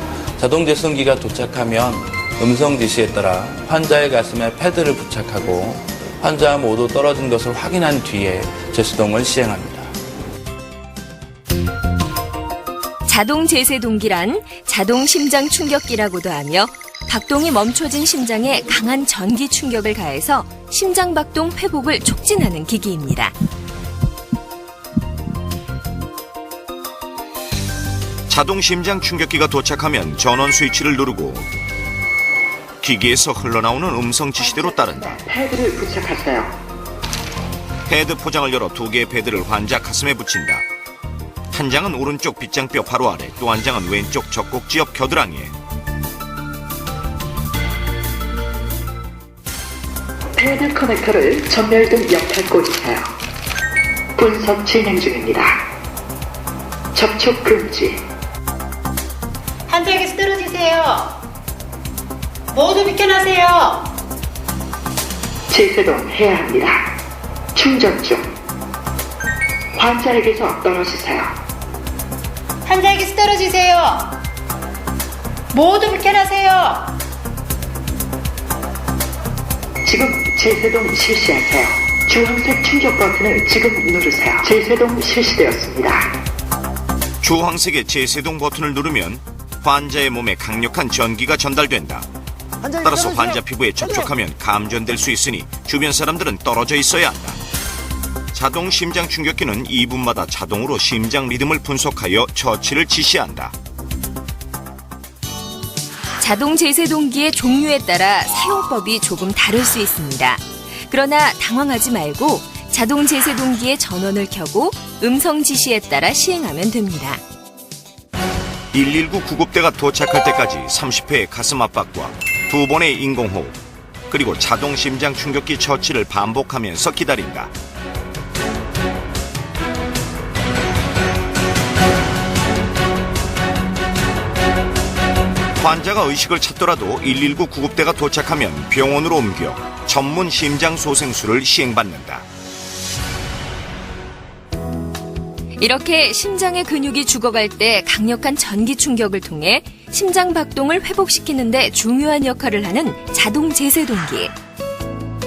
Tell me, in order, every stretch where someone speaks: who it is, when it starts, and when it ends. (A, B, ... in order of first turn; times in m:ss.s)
0:00.4-0:09.9 A
0:13.0-0:23.3 B
0:28.3-0:31.5 C
0:32.8-0:35.2 C
0:34.4-0:36.5 D
0:37.9-0:40.6 C
0:41.5-0:45.5 C
0:50.4-0:53.1 D
0:54.2-0:55.6 D
0:56.9-0:58.0 D
0:59.7-1:01.2 E
1:02.5-1:03.9 E
1:05.5-1:06.9 D
1:07.5-1:08.3 D
1:09.7-1:11.3 D
1:12.6-1:14.2 E
1:15.5-1:17.0 E
1:19.8-1:26.1 D
1:27.2-1:32.1 C
1:32.8-1:37.4 C
1:38.3-1:43.5 C
1:46.2-1:57.2 B
1:58.7-2:07.5 C
2:15.6-2:22.3 C
2:25.6-2:34.3 B